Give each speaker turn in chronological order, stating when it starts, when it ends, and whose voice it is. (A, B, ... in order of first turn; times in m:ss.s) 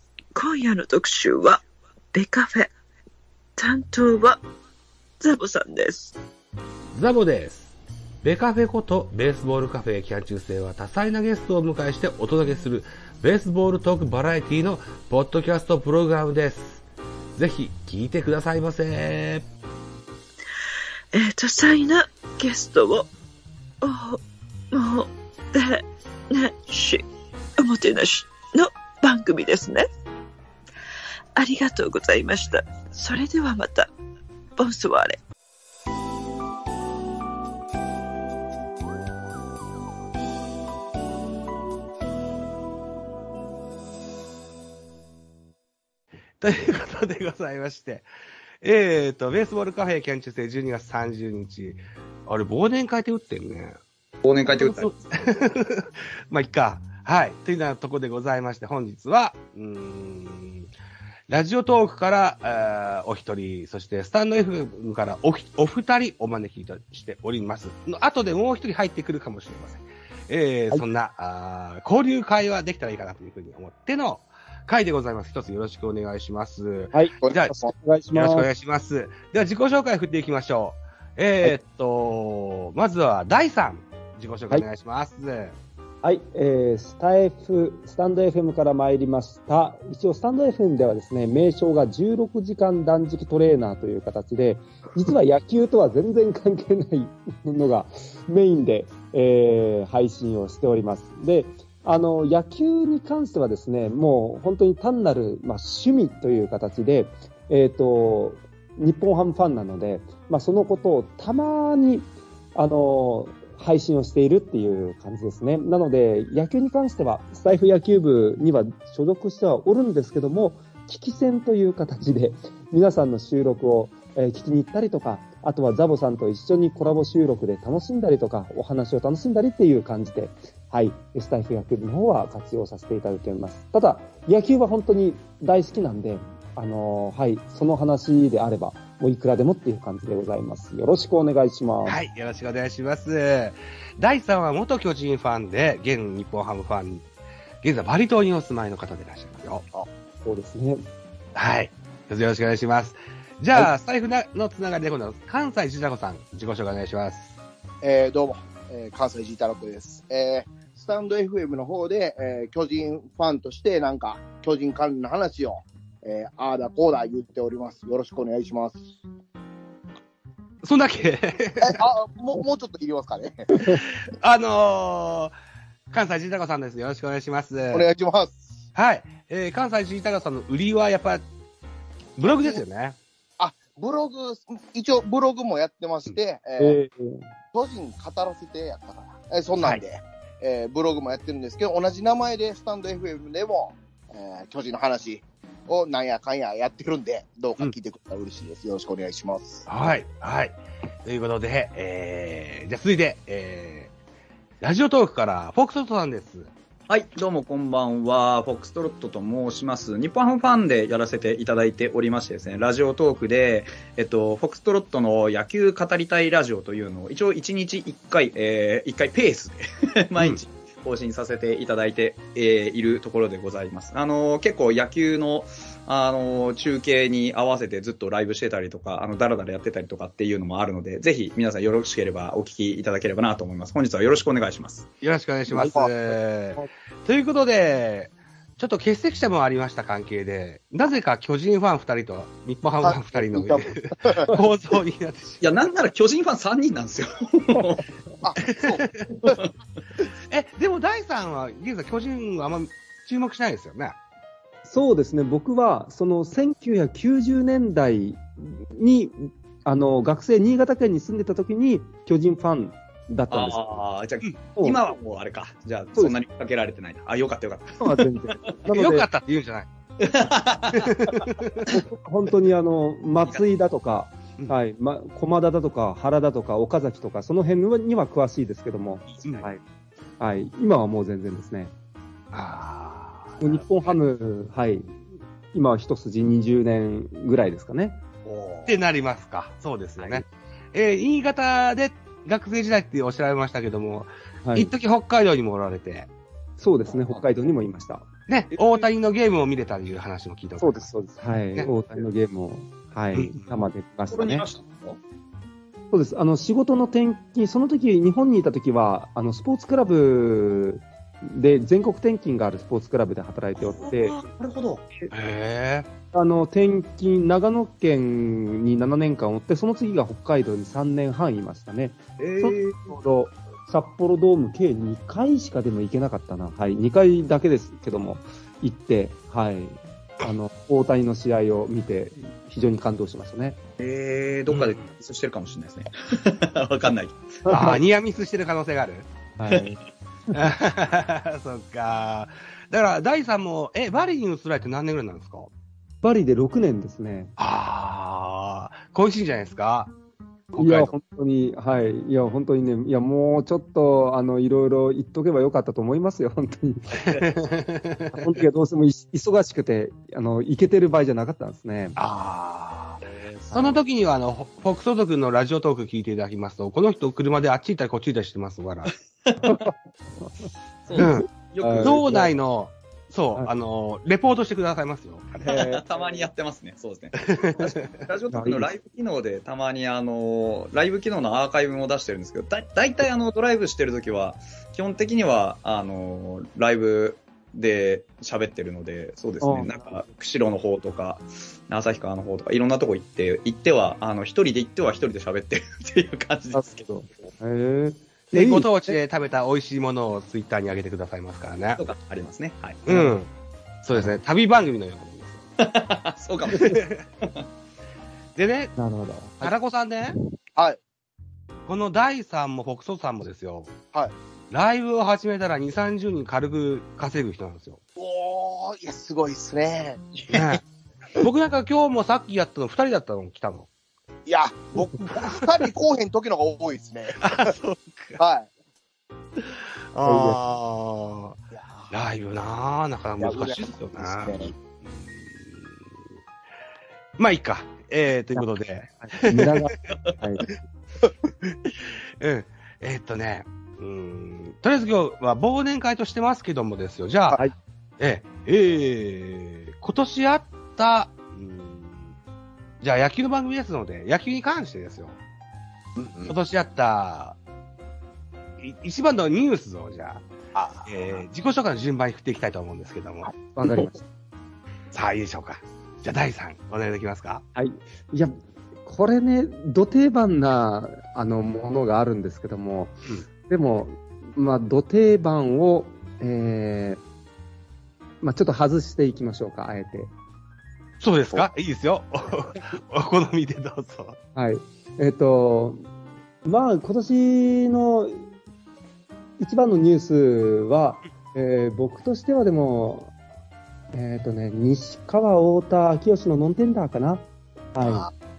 0:00.3-0:01.6 A
0:02.1-0:02.7 A
0:03.6-0:04.4 A
0:05.2-0:06.1 A
0:06.9-0:16.8 B
0:17.4-0:19.4 B
0:21.1-0:23.1 A
0:23.8-0:24.2 A
0:24.7-0:27.0 A
0:27.6-0:29.9 A
0:31.4-0:33.9 A
0:34.6-0:35.2 A
0:46.4-0:48.1 B
0:48.6-0:53.8 B
0:54.2-0:54.9 C
0:54.5-1:00.7 B
1:01.3-1:17.5 B
1:16.9-1:18.5 D
1:17.2-1:17.7 E
1:18.1-1:25.6 B
1:26.0-2:22.0 D
2:21.8-2:27.1 B
2:27.6-2:29.6 B
2:30.2-2:30.9 D
2:31.3-2:37.3 B
2:37.8-2:48.9 E
2:50.6-2:51.8 B
2:51.6-2:53.7 E
2:54.1-2:55.3 B
2:55.9-2:57.8 B
2:57.7-2:58.5 E
2:58.8-3:01.2 B
3:02.2-3:03.0 B
3:02.2-3:02.6 E
3:03.4-3:06.8 E
3:06.6-3:07.3 D
3:07.5-3:19.7 E
3:19.7-3:23.9 B
3:24.6-3:26.5 B
3:26.9-3:54.9 C
3:55.0-4:05.6 B
3:55.5-3:55.9 E
4:02.8-4:04.4 E
4:05.4-4:07.8 C
4:08.2-4:08.9 E
4:08.4-4:09.1 B
4:09.1-4:09.5 C
4:10.3-4:14.0 B
4:14.6-4:23.8 D
4:23.3-4:27.9 C
4:27.8-4:29.1 D
4:28.7-4:29.7 B
4:30.0-4:31.3 C
4:30.7-4:31.6 B
4:31.7-4:39.6 D
4:39.2-4:39.5 B
4:40.2-4:41.7 D
4:42.3-4:44.0 B
4:43.4-4:45.0 D
4:45.5-4:48.0 D
4:48.2-4:56.1 B
4:54.4-4:54.7 D
4:56.6-4:58.1 D
4:58.3-5:00.9 B
5:00.6-5:04.5 D
5:01.5-5:02.0 B
5:03.1-5:03.5 B
5:04.1-5:05.0 C
5:05.9-5:14.2 D
5:13.6-5:15.1 C
5:15.1-5:15.9 B
5:16.1-5:33.6 D
5:22.2-5:23.0 C
5:33.8-5:37.3 C
5:34.5-5:34.9 B
5:37.5-5:37.8 D
5:37.5-5:39.1 B
5:39.4-5:39.8 D
5:40.3-5:45.5 B
5:46.0-5:47.3 D
5:47.4-5:49.9 B
5:50.5-5:50.9 B
5:50.6-5:57.0 D
5:57.0-5:58.3 B
5:58.2-6:02.0 D
6:02.0-6:08.9 B
6:03.3-6:03.8 D
6:09.3-6:09.6 C
6:09.4-6:12.3 D
6:10.9-6:12.2 C
6:11.0-6:11.3 B
6:11.8-6:15.5 B
6:15.4-6:36.9 C
6:15.5-6:16.3 D
6:17.4-6:18.0 B
6:18.3-6:18.7 D
6:29.4-6:29.8 D
6:36.5-6:39.0 D
6:38.3-6:41.8 B
6:41.8-6:42.8 C
6:42.9-6:43.3 B
6:42.9-6:43.2 D
6:43.8-6:45.4 B
6:45.6-6:47.4 C
6:46.6-6:47.0 B
6:48.4-6:48.8 B
6:48.8-6:49.5 D
6:49.4-6:50.2 B
6:51.7-6:53.7 B
6:54.5-6:57.8 B
6:58.0-7:00.6 E
7:00.3-7:00.6 B
7:01.2-7:03.7 B
7:04.3-7:07.5 E
7:07.2-7:08.2 B
7:08.2-7:08.5 E
7:09.4-7:11.4 B
7:10.0-7:10.4 D
7:11.5-7:11.9 E
7:11.9-7:15.9 B
7:13.2-7:14.5 E
7:17.2-7:19.9 B
7:18.4-7:20.5 D
7:21.4-7:27.4 B
7:28.0-7:32.1 B
7:32.8-7:35.2 B
7:36.0-7:36.3 E
7:36.3-7:37.4 B
7:38.6-7:40.3 B
7:40.6-7:41.2 E
7:40.8-7:43.3 B
7:43.3-7:44.0 D
7:44.9-7:47.4 B
7:47.6-7:57.0 D
7:58.2-8:00.1 D
8:01.0-8:04.2 B
8:04.4-8:05.9 D
8:06.4-8:08.3 D
8:09.4-8:13.1 D
8:13.9-8:18.1 D
8:17.8-8:18.1 E